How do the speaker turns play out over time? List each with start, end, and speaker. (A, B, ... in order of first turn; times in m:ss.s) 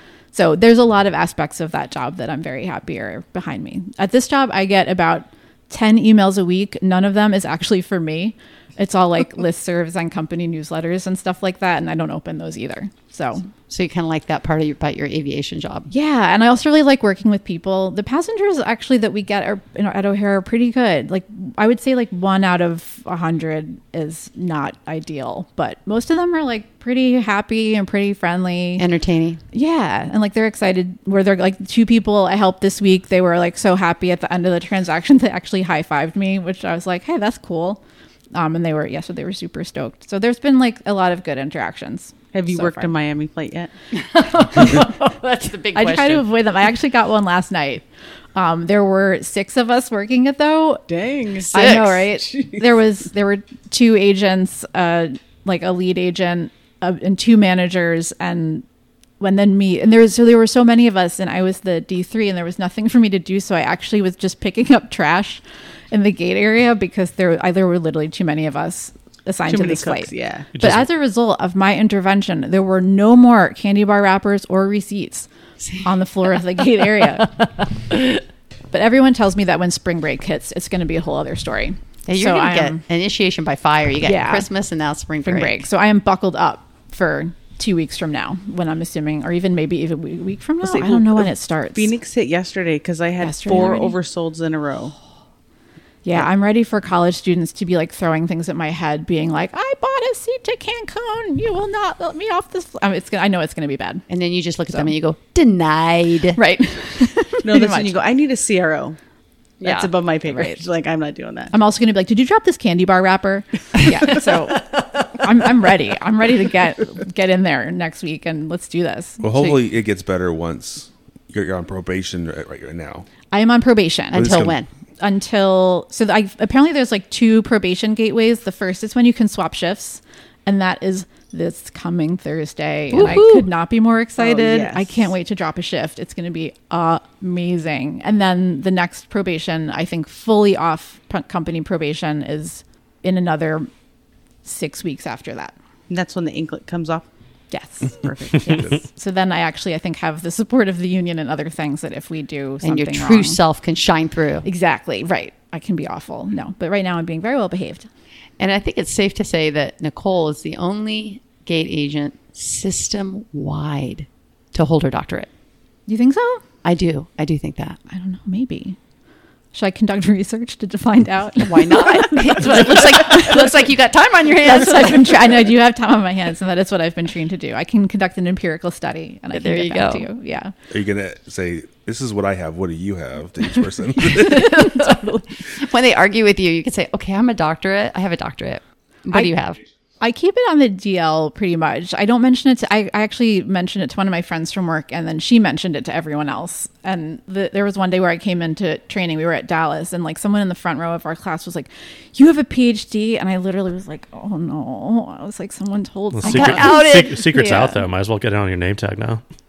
0:00.3-0:13.5 A
0:13.7-0:15.9 B
0:15.9-0:28.8 A
0:28.8-0:29.4 B
0:29.5-0:37.8 A
0:38.3-0:42.9 A
0:42.3-0:43.7 C
0:43.9-0:46.3 B
0:44.5-0:44.9 A
0:45.7-0:50.8 A
0:50.9-0:52.6 C
0:51.5-0:58.6 A
0:51.5-0:52.0 B
0:59.2-1:15.3 A
1:09.5-1:10.5 C
1:10.6-1:10.8 D
1:15.8-1:17.4 A
1:18.7-1:22.8 A
1:22.1-1:25.6 B
1:24.0-1:24.5 A
1:25.2-1:31.9 A
1:30.6-1:34.9 C
1:33.2-1:33.9 A
1:36.0-1:44.0 A
1:44.1-1:46.4 B
1:46.4-1:47.9 A
1:47.4-1:49.0 C
1:49.6-1:49.9 B
1:49.6-1:51.5 C
1:50.3-1:50.6 A
1:51.5-1:59.2 A
1:59.2-2:03.1 E
1:59.3-1:59.6 B
2:03.3-2:23.7 A
2:04.1-2:04.7 B
2:04.1-2:04.6 E
2:12.9-2:13.5 B
2:14.2-2:15.1 C
2:24.4-2:25.5 A
2:25.9-2:27.1 C
2:27.5-2:33.4 A
2:27.9-2:28.8 C
2:32.6-2:34.5 B
2:34.4-2:37.9 A
2:38.4-2:45.3 B
2:45.9-2:46.4 A
2:46.6-2:47.8 B
2:47.9-2:48.8 A
2:49.5-2:53.6 A
2:51.4-2:55.4 B
2:54.4-3:00.5 A
2:59.3-3:00.1 B
3:00.7-3:04.8 E
3:04.2-3:09.6 B
3:04.5-3:05.2 A
3:10.0-3:27.8 A
3:26.2-3:29.2 D
3:26.2-3:27.8 B